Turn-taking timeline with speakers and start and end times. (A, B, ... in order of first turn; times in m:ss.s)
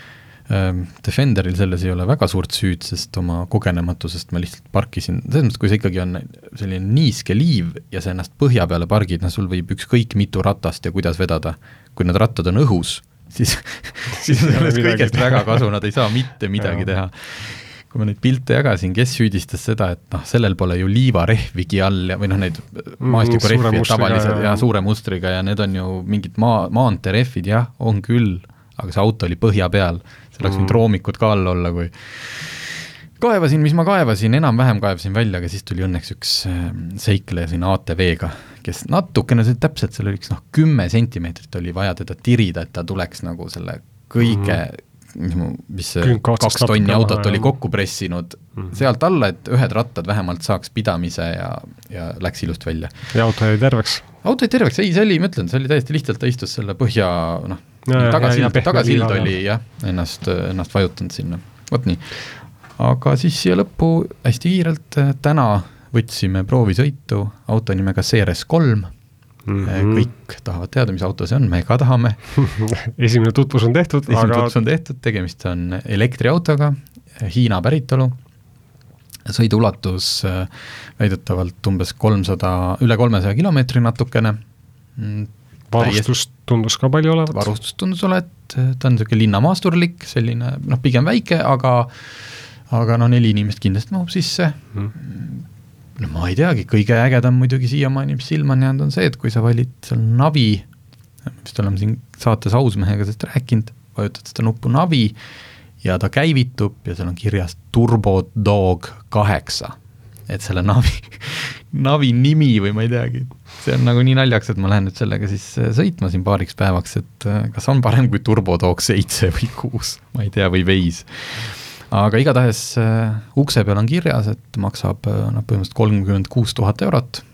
0:00.5-0:52.9 A
0:14.1-0:15.6 B
0:23.0-0:24.6 B
0:30.4-0:30.8 B
0:44.3-0:44.6 B
0:46.0-0:47.5 B
0:53.1-0:54.1 B
0:54.2-1:08.9 A
0:57.9-0:59.3 B
1:09.5-1:10.1 B
1:09.6-1:12.2 A
1:12.4-1:14.5 B
1:14.1-1:18.2 A
1:19.3-1:24.4 A
1:25.0-1:26.1 A
1:25.7-1:27.5 B
1:27.3-1:35.4 A
1:36.0-1:40.7 A
1:41.3-1:45.2 A
1:45.8-1:49.8 A
1:50.3-2:07.2 A